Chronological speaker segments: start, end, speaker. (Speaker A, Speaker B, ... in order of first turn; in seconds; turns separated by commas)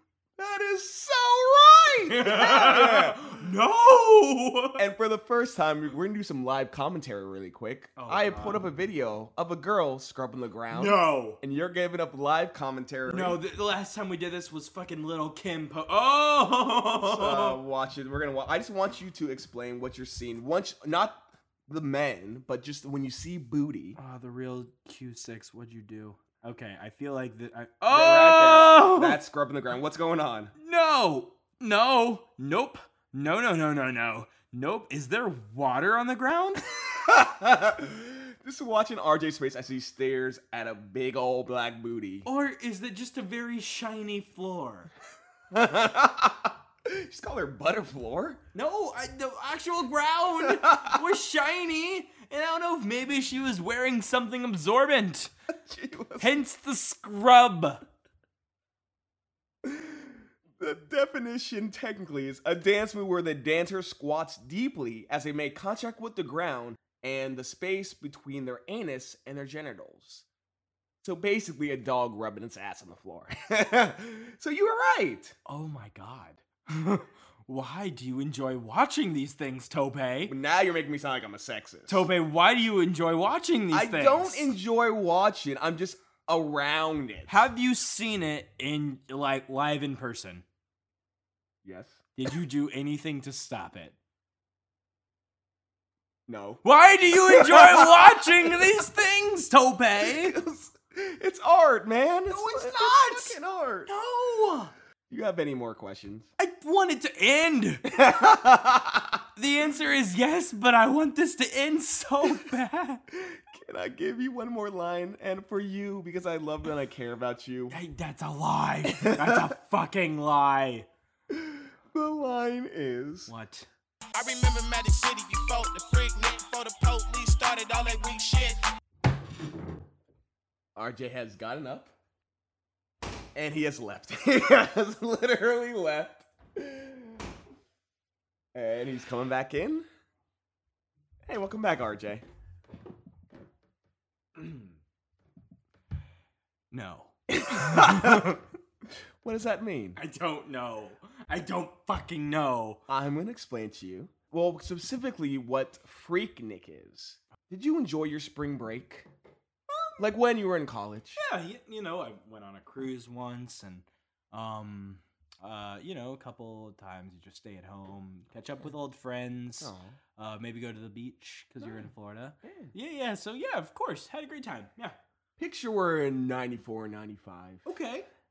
Speaker A: 0.4-3.2, Speaker B: 2.1-4.8, Speaker A: 4.8-13.4, Speaker B: 8.0-8.6, Speaker B: 10.7-11.4, Speaker B: 13.1-17.6, Speaker A: 17.0-24.0, Speaker B: 24.0-29.2, Speaker A: 27.9-30.5, Speaker B: 30.6-36.6, Speaker A: 36.9-42.2, Speaker B: 42.2-44.9, Speaker A: 45.5-48.4, Speaker B: 48.5-55.3, Speaker A: 50.4-51.0, Speaker A: 55.6-56.3, Speaker B: 56.2-57.8, Speaker A: 59.6-70.2, Speaker A: 71.0-75.3, Speaker B: 75.5-80.3, Speaker A: 80.3-82.0, Speaker B: 81.9-84.5, Speaker A: 83.7-87.4, Speaker B: 87.3-90.4, Speaker A: 91.6-92.0, Speaker B: 92.2-93.9, Speaker A: 96.3-98.7, Speaker B: 96.6-100.3, Speaker A: 100.0-103.9, Speaker B: 102.3-104.7, Speaker A: 105.1-106.3, Speaker B: 106.4-107.9, Speaker A: 107.8-109.2, Speaker B: 109.4-113.0, Speaker A: 113.1-117.8, Speaker B: 117.7-120.9, Speaker A: 118.8-119.5, Speaker A: 121.3-123.3, Speaker B: 123.3-123.7, Speaker C: 124.1-128.6, Speaker A: 130.7-131.9, Speaker A: 133.3-137.2, Speaker A: 138.5-139.8, Speaker A: 141.2-142.2, Speaker B: 144.3-144.7, Speaker B: 146.7-148.4, Speaker A: 147.3-148.4, Speaker A: 149.2-150.0, Speaker B: 149.9-152.8, Speaker A: 152.9-159.1, Speaker A: 160.0-161.2, Speaker B: 161.1-174.9, Speaker A: 169.6-170.0, Speaker A: 172.4-172.7, Speaker A: 175.4-177.6, Speaker B: 177.6-178.1